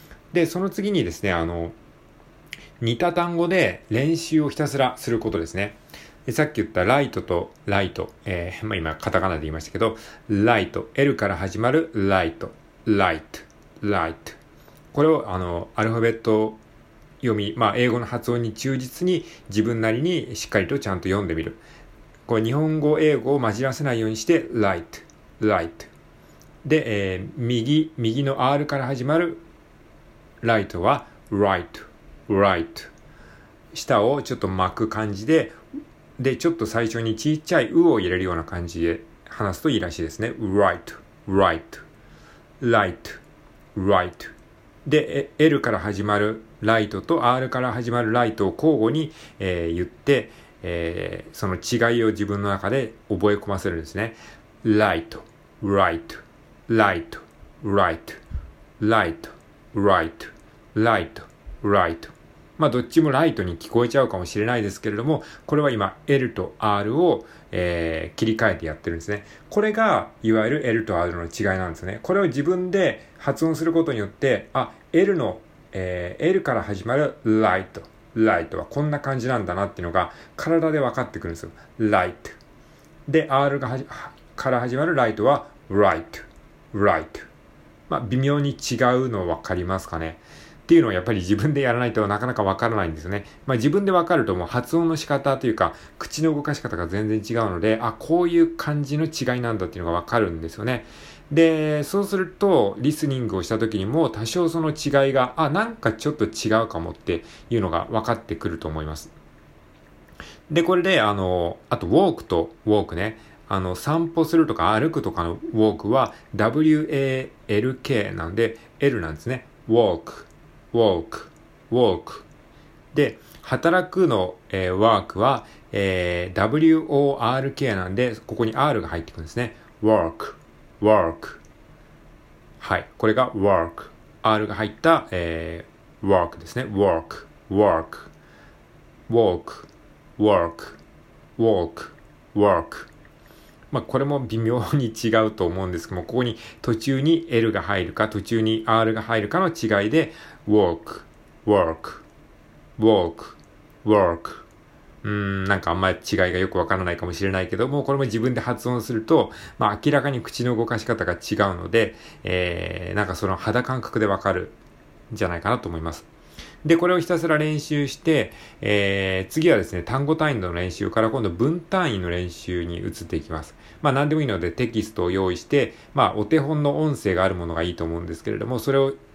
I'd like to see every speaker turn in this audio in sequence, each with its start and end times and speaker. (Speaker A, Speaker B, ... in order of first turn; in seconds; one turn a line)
Speaker A: 0.3-1.8
Speaker A: 2.8-14.4
Speaker A: 14.9-16.6
Speaker A: 17.2-21.6
Speaker A: 22.3-25.9
Speaker A: 26.6-29.4
Speaker A: 30.4-32.9
Speaker A: 33.7-35.6
Speaker A: 36.2-41.8
Speaker A: 42.6-43.2
Speaker A: 43.7-44.3
Speaker A: 44.8-58.2
Speaker A: 58.8-82.4
Speaker A: 83.1-87.3
Speaker A: 87.9-109.1
Speaker A: 110.5-122.3
Speaker A: 122.9-131.4
Speaker A: 132.6-138.1
Speaker A: 139.1-140.8
Speaker A: 141.4-142.9
Speaker A: 143.7-152.0
Speaker A: 152.8-154.4
Speaker A: 155.0-164.6
Speaker A: 165.1-166.1
Speaker A: 166.6-179.0